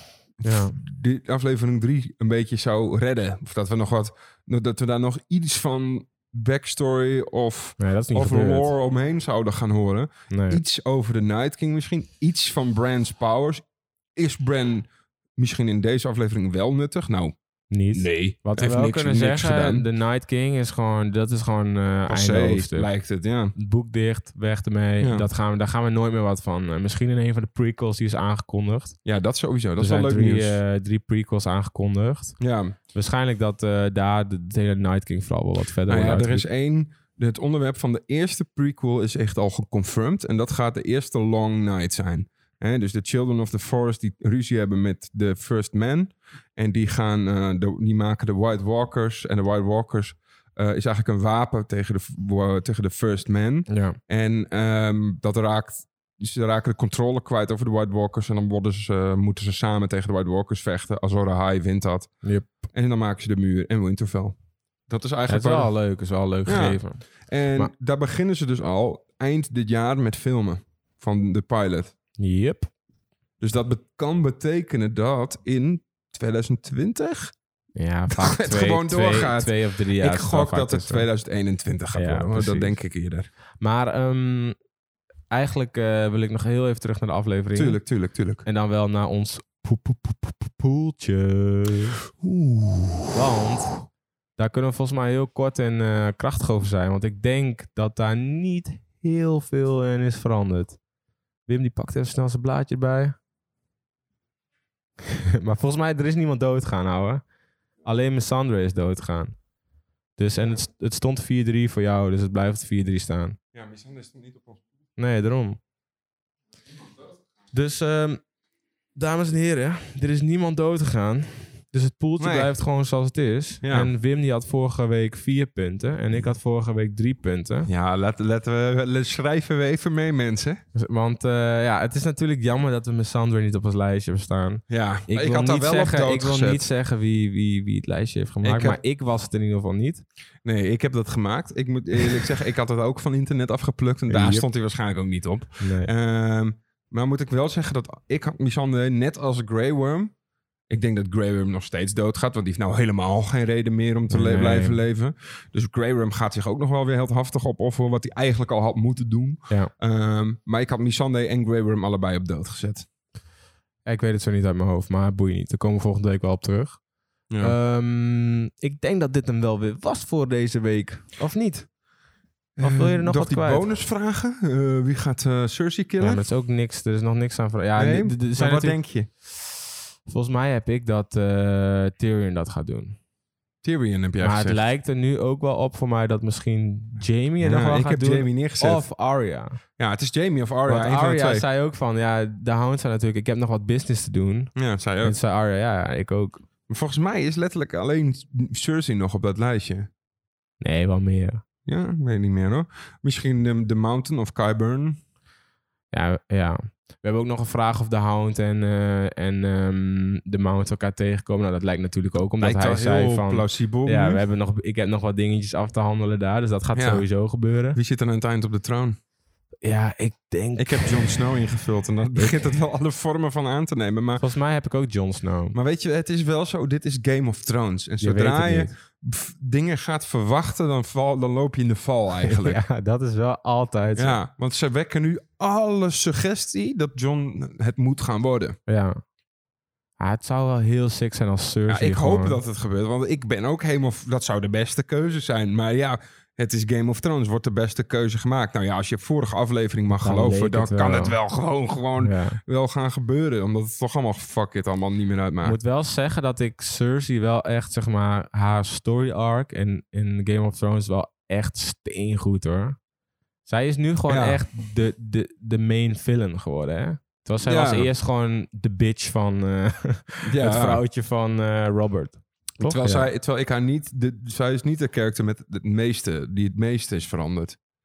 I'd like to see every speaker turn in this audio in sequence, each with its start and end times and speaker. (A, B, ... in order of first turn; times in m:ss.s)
0:00.4-0:13.6 A
0:00.4-0:00.8 B
0:07.8-0:08.7 B
0:10.3-0:10.6 B
0:14.2-0:17.3 A
0:17.7-0:22.9 B
0:17.9-0:19.9 A
0:22.1-0:23.5 A
0:23.6-0:29.0 B
0:25.0-0:25.3 A
0:29.0-0:30.6 A
0:29.8-0:32.4 B
0:32.4-0:32.8 A
0:32.9-0:36.4 B
0:35.9-1:02.1 A
0:53.7-0:54.0 B
1:02.2-1:02.5 B
1:02.7-1:04.4 A
1:04.9-1:05.7 A
1:05.3-1:07.7 B
1:06.5-1:11.9 A
1:12.2-1:12.7 B
1:13.4-1:17.3 A
1:17.8-1:21.1 B
1:18.1-1:23.3 A
1:21.9-1:22.8 B
1:23.6-1:24.6 B
1:25.3-1:27.8 B
1:27.6-1:28.4 A
1:28.4-1:32.0 B
1:32.2-1:33.2 A
1:33.1-1:33.9 B
1:34.4-1:40.8 B
1:41.5-1:43.2 B
1:45.1-1:47.2 B
1:47.8-1:49.4 B
1:50.2-1:53.4 B
1:53.5-1:54.6 A
1:55.0-1:55.6 B
1:57.5-1:58.2 B
1:59.0-2:07.7 B
2:02.2-2:02.5 A
2:03.6-2:03.9 A
2:07.7-2:10.6 A
2:10.8-2:20.0 B
2:14.7-2:16.7 A
2:18.4-2:18.8 A
2:20.4-2:30.1 A
2:24.1-2:24.4 B
2:25.6-2:25.9 B
2:30.7-2:42.9 A
2:34.1-2:34.8 B
2:43.9-2:46.8 B
2:47.3-2:47.6 A
2:47.4-2:51.7 B
2:52.6-2:56.2 A
2:52.6-2:53.6 B
2:56.0-2:58.8 B
2:57.8-2:59.1 A
3:00.1-3:03.0 B
3:03.6-3:04.6 A
3:04.2-3:09.6 B
3:07.4-3:08.8 A
3:09.8-3:11.4 A
3:10.7-3:16.4 B
3:14.6-3:15.2 A
3:16.7-3:19.9 A
3:20.6-3:21.4 B
3:21.7-3:25.0 A
3:25.9-3:37.8 B
3:32.4-3:34.2 A
3:36.8-3:37.1 A
3:37.8-3:39.0 A
3:39.6-3:41.1 B
3:40.6-3:44.2 A
3:42.2-3:42.5 B
3:44.2-3:45.6 B
3:45.5-3:52.6 A
3:48.0-3:48.7 B
3:52.2-3:54.2 B
3:54.0-3:58.6 A
3:58.7-3:59.0 B
4:00.0-4:02.4 B
4:01.7-4:15.6 A
4:09.9-4:11.2 B
4:12.0-4:12.4 B
4:15.4-4:22.8 B
4:23.5-4:33.1 B
4:24.1-4:24.4 A
4:27.4-4:27.9 A
4:30.2-4:30.8 A
4:32.6-4:37.6 A